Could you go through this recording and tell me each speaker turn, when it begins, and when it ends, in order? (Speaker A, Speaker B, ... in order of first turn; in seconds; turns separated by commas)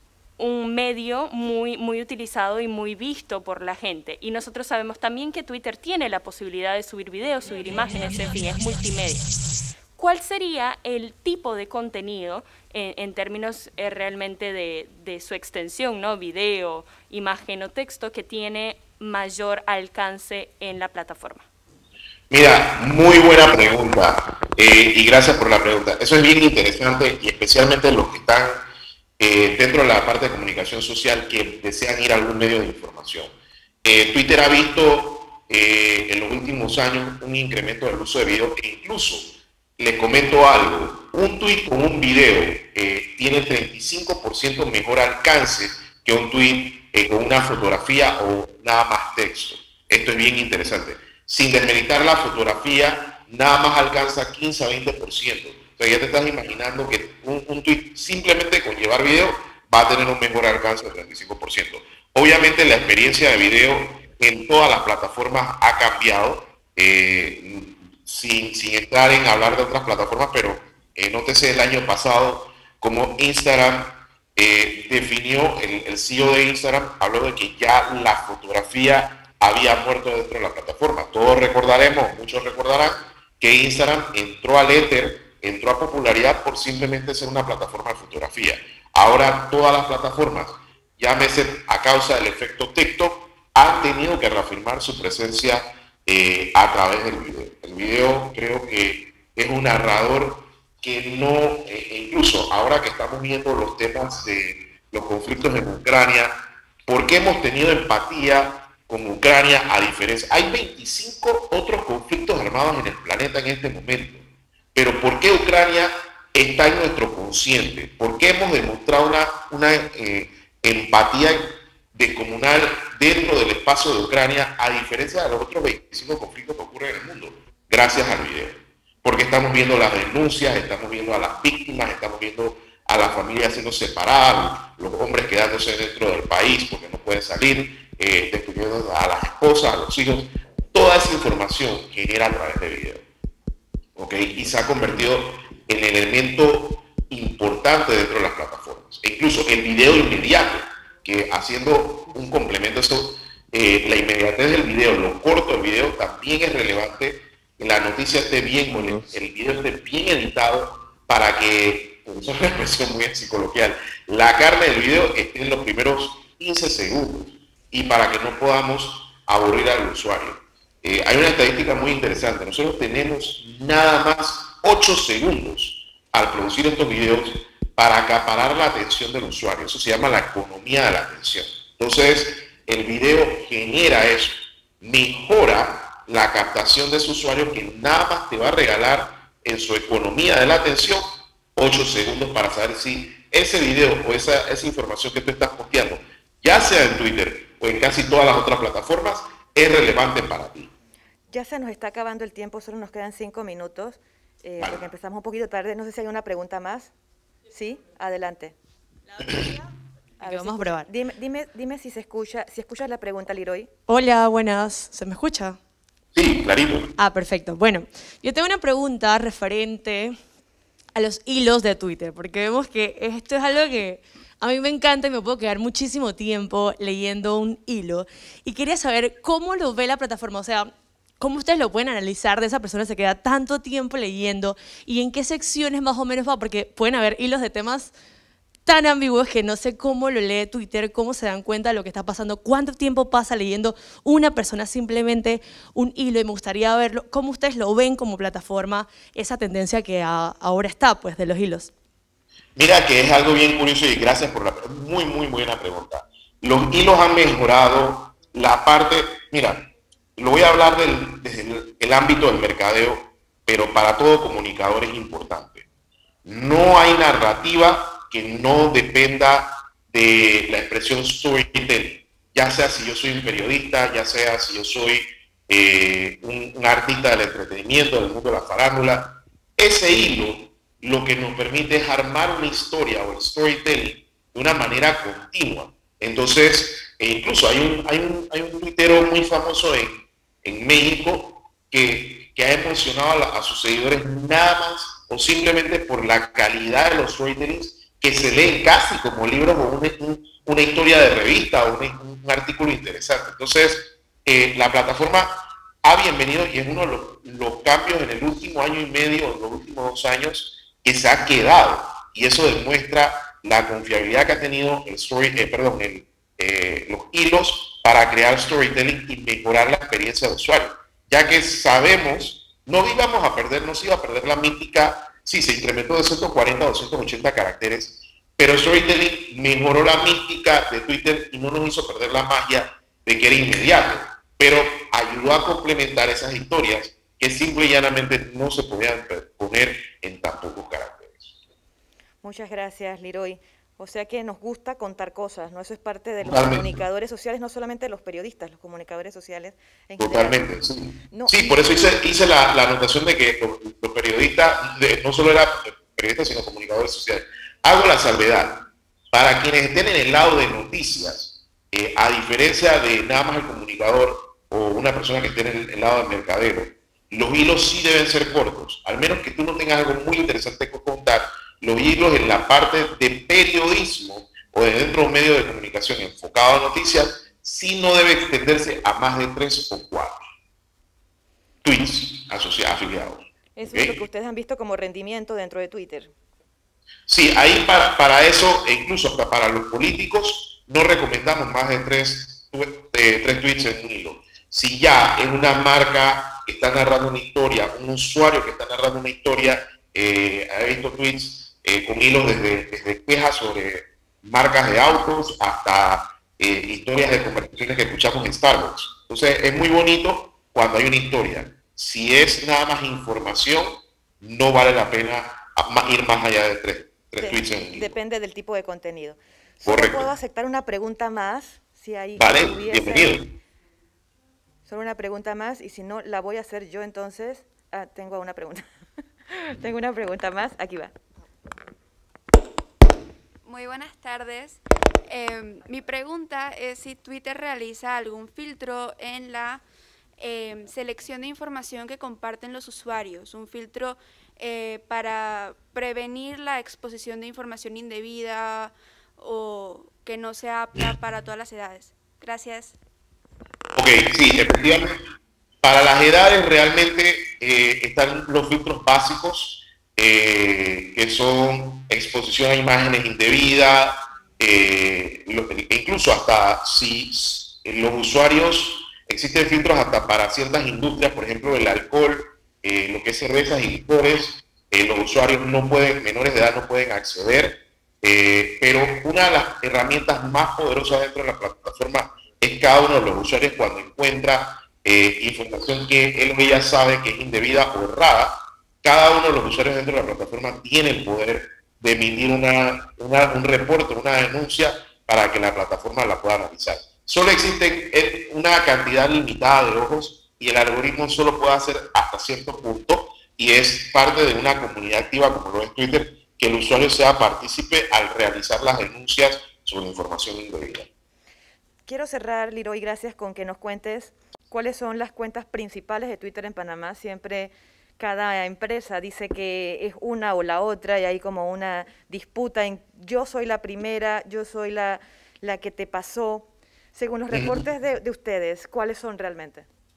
Speaker A: 0.4-9.3, Speaker A: 10.0-21.5, Speaker B: 22.3-28.7, Speaker B: 29.2-143.1, Speaker B: 144.0-200.7, Speaker C: 201.3-206.9, Speaker B: 204.6-204.9, Speaker C: 207.5-208.6, Speaker B: 209.2-209.5, Speaker C: 210.2-213.7, Speaker D: 210.2-210.9, Speaker D: 213.9-215.6, Speaker B: 216.1-216.9, Speaker D: 217.0-220.2, Speaker D: 220.9-237.9, Speaker D: 238.7-251.7, Speaker B: 252.6-265.7, Speaker B: 266.2-341.4, Speaker C: 342.2-350.5, Speaker B: 346.2-346.8, Speaker B: 350.0-380.2, Speaker C: 351.1-352.0, Speaker B: 381.6-384.0, Speaker C: 383.6-386.1, Speaker B: 387.1-418.0, Speaker C: 417.2-423.3, Speaker B: 419.6-420.1, Speaker B: 422.2-423.4, Speaker C: 424.7-428.6, Speaker C: 429.3-430.9, Speaker E: 433.4-439.6, Speaker E: 440.2-452.8, Speaker B: 453.8-455.0, Speaker B: 455.6-510.9, Speaker C: 511.9-529.7, Speaker B: 527.3-527.7